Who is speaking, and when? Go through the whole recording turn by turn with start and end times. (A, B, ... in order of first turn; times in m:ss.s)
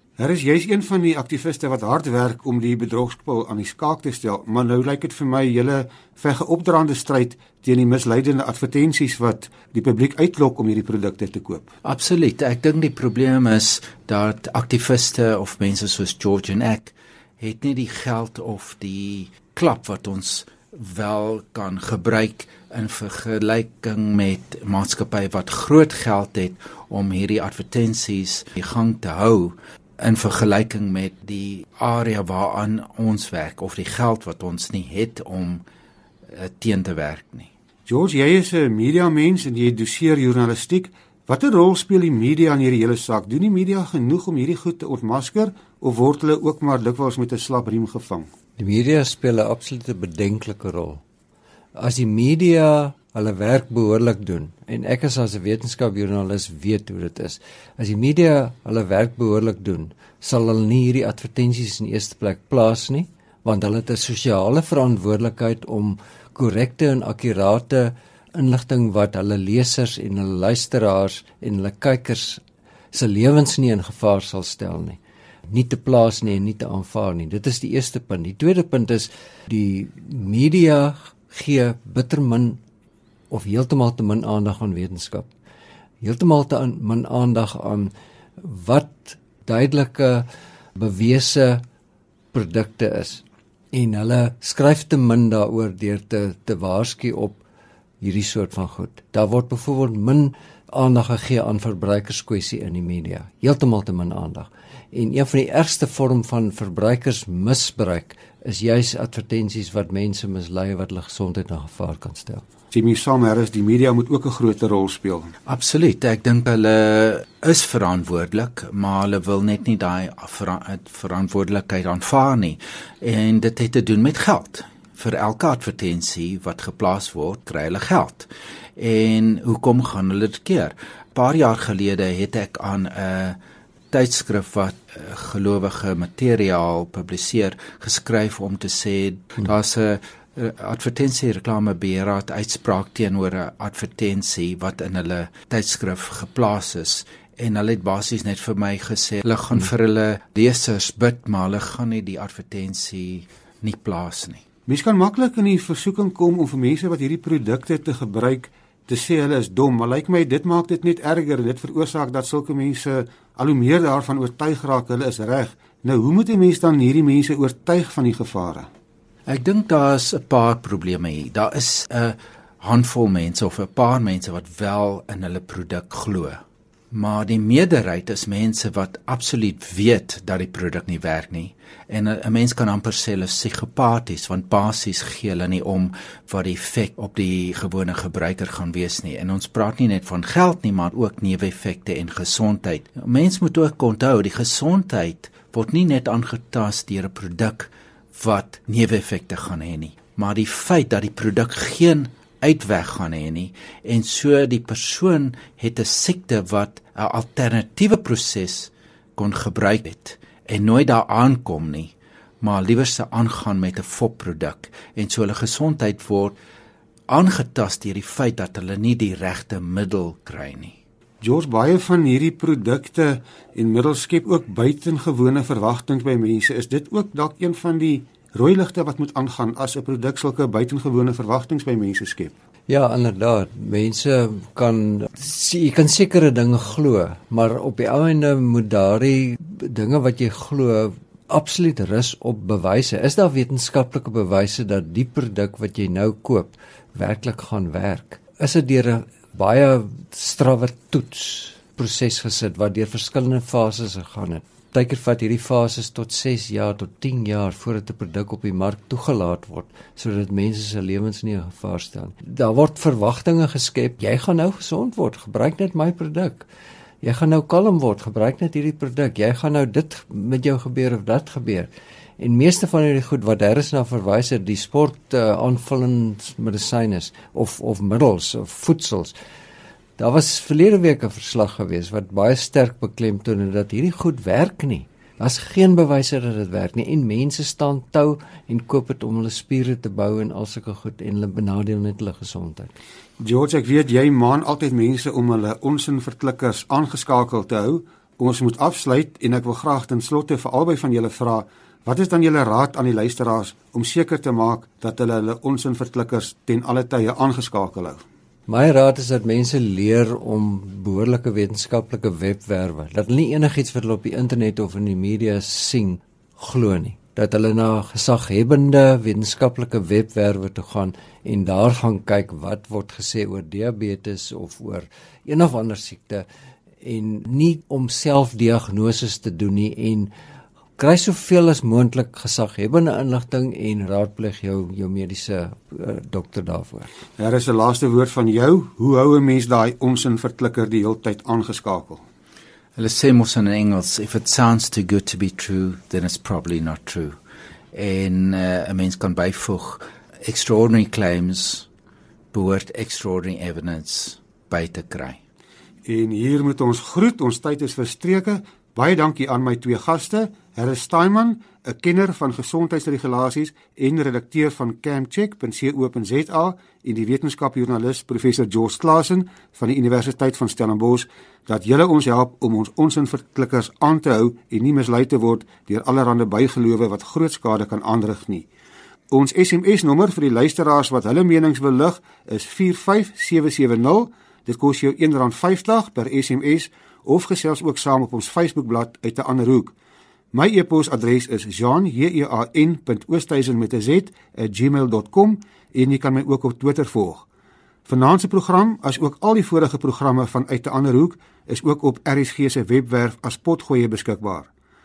0:00.2-0:11.7 A
0:11.8-0:35.6 B
0:36.3-0:37.5 B
0:37.9-0:48.3 A
0:48.6-0:51.0 C
0:51.8-1:12.4 C
1:12.9-1:15.0 C
1:15.5-1:22.6 C
1:23.3-1:25.3 C
1:26.0-1:31.6 C
1:32.3-1:37.4 C
1:38.0-1:52.4 C
1:52.7-1:55.3 A
1:55.5-2:13.4 B
2:13.9-2:34.4 B
2:34.7-2:48.7 A
2:49.3-3:36.4 B
3:37.1-3:40.7 B
3:41.2-3:52.3 A
3:52.7-4:26.5 C
4:27.0-4:39.2 C
4:40.0-4:52.7 C
4:53.2-5:08.0 A
5:08.5-5:26.3 C
5:26.8-5:30.1 C
5:30.8-5:36.9 C
5:37.2-5:42.0 A
5:42.8-5:47.2 B
5:47.7-5:51.7 B
5:52.3-5:55.2 B
5:55.8-6:18.5 A
6:19.1-6:29.7 A
6:30.3-6:37.2 A
6:37.9-6:44.5 A